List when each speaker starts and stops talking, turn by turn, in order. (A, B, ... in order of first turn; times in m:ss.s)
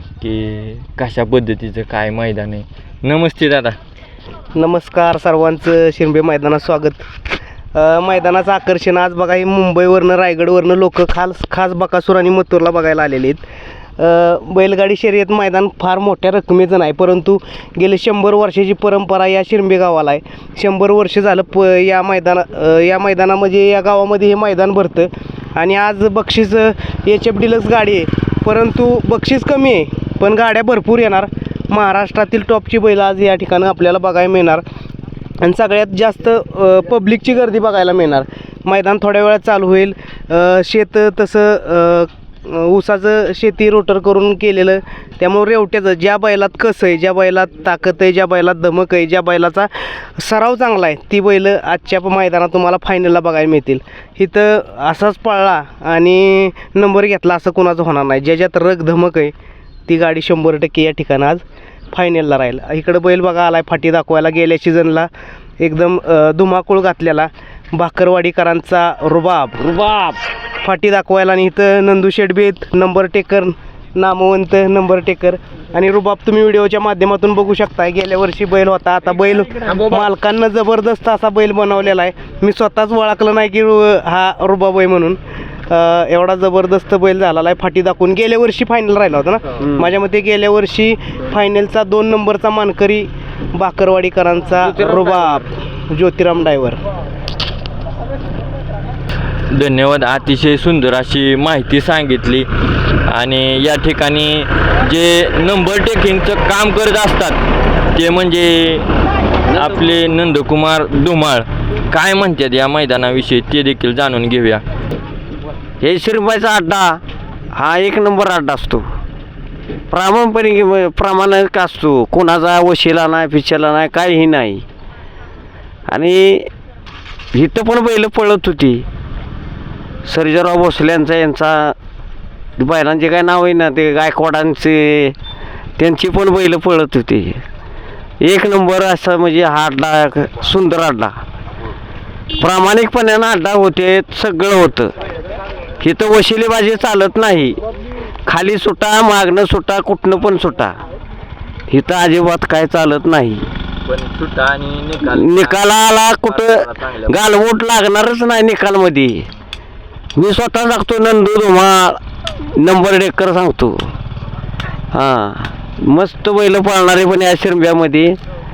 0:00.2-0:03.8 A
0:04.6-0:07.0 B
0:07.8-0:13.4 B
0:14.0-0:34.6 B
0:35.4-0:59.3 B
0:59.9-1:05.1 B
1:05.6-1:09.6 B
1:09.6-1:10.2 C
1:10.6-1:25.2 B
1:25.7-1:36.8 B
1:39.5-1:42.5 A
1:43.1-1:47.4 A
1:47.9-1:48.9 A
1:49.5-1:54.6 A
1:55.8-1:57.0 C
1:57.5-1:58.8 C
1:59.9-2:04.6 C
2:05.9-2:06.5 C
2:07.3-2:08.9 C
2:10.0-2:11.8 C
2:12.6-2:15.2 C
2:15.8-2:17.4 C
2:18.2-2:21.1 C
2:22.4-2:24.9 C
2:25.8-2:27.6 C
2:28.3-2:30.8 C
2:31.7-2:33.5 C
2:33.8-2:37.3 A
2:35.0-2:39.3 C
2:40.2-2:42.0 C
2:42.6-2:43.9 C
2:44.9-2:48.2 C